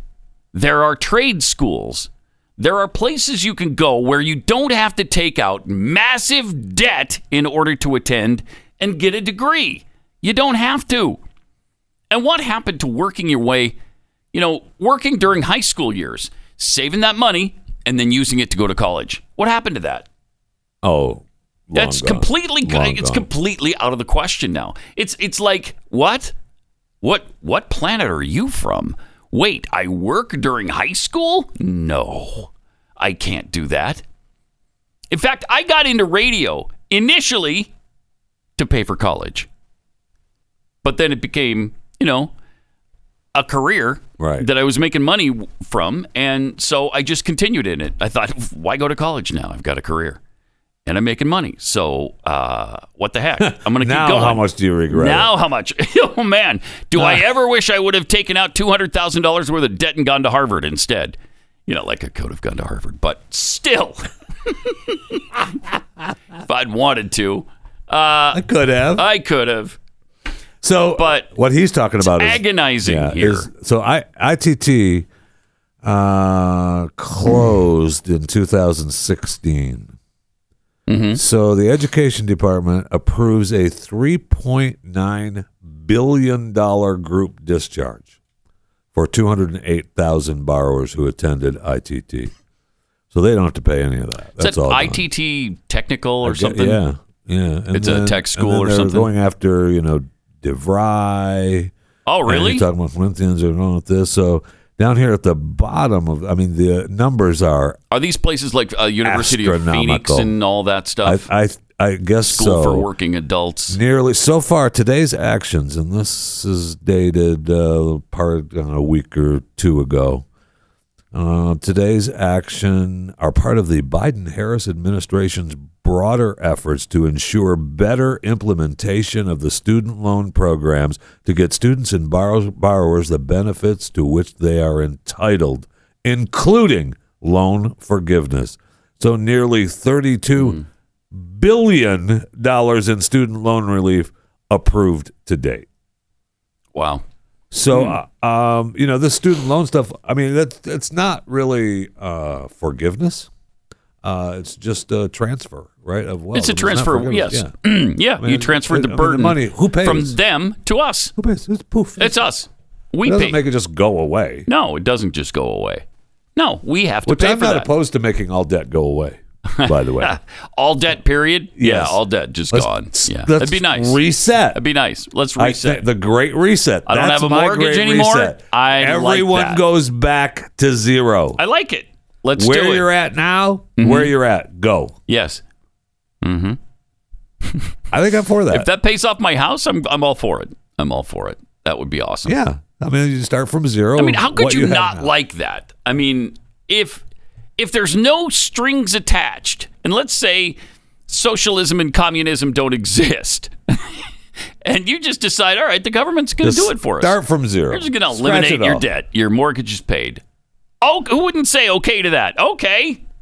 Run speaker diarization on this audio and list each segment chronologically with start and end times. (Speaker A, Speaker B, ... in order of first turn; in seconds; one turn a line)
Speaker A: 0.5-11.2
Speaker A: 12.1-13.8
Speaker A: 14.3-20.1
Speaker B: 20.8-23.3
Speaker A: 21.7-26.3
Speaker A: 27.0-34.0
Speaker A: 35.1-37.7
Speaker A: 38.6-39.5
Speaker A: 40.8-42.3
Speaker A: 43.3-50.2
Speaker B: 44.2-44.5
Speaker A: 50.9-64.0
Speaker B: 53.4-55.3
Speaker B: 57.0-57.2
Speaker A: 64.9-65.2
Speaker A: 66.5-68.4
Speaker B: 68.3-69.0
Speaker A: 69.0-69.8
Speaker B: 70.6-75.1
Speaker A: 71.0-71.3
Speaker A: 72.0-73.5
Speaker B: 75.8-79.9
Speaker A: 80.9-81.2
Speaker B: 81.2-88.1
Speaker B: 88.9-92.3
Speaker B: 93.1-95.0
Speaker A: 94.4-96.8
Speaker B: 96.2-101.7
Speaker A: 97.7-99.1
Speaker A: 102.0-102.7
Speaker B: 102.2-107.8
Speaker A: 107.9-111.3
Speaker B: 109.0-110.3
Speaker B: 111.0-112.9
Speaker A: 112.2-113.8
Speaker B: 113.7-120.2
Speaker B: 121.1-140.6
Speaker A: 140.3-140.6
Speaker B: 141.1-145.7
Speaker A: 146.7-147.0
Speaker B: 147.5-153.3
Speaker A: 147.7-148.0
Speaker B: 154.0-157.5
Speaker A: 156.3-161.1
Speaker B: 158.2-160.2
Speaker B: 161.2-162.2
Speaker A: 162.0-163.4
Speaker B: 163.0-164.5
Speaker A: 164.5-165.8
Speaker A: 166.3-167.7
Speaker B: 167.1-170.1
Speaker A: 169.5-174.0
Speaker B: 171.6-172.0
Speaker B: 172.5-174.6
Speaker A: 174.5-175.9
Speaker B: 175.4-181.4
Speaker A: 176.9-179.6
Speaker A: 181.4-182.9
Speaker B: 182.3-184.9
Speaker A: 183.8-184.1
Speaker A: 185.1-185.4
Speaker A: 186.2-186.6
Speaker B: 187.9-188.7
Speaker A: 188.5-192.4
Speaker B: 192.2-195.1
Speaker A: 194.0-197.0
Speaker A: 197.6-203.9
Speaker A: 204.6-207.2
Speaker B: 206.4-208.8
Speaker A: 207.7-210.2
Speaker A: 210.8-213.0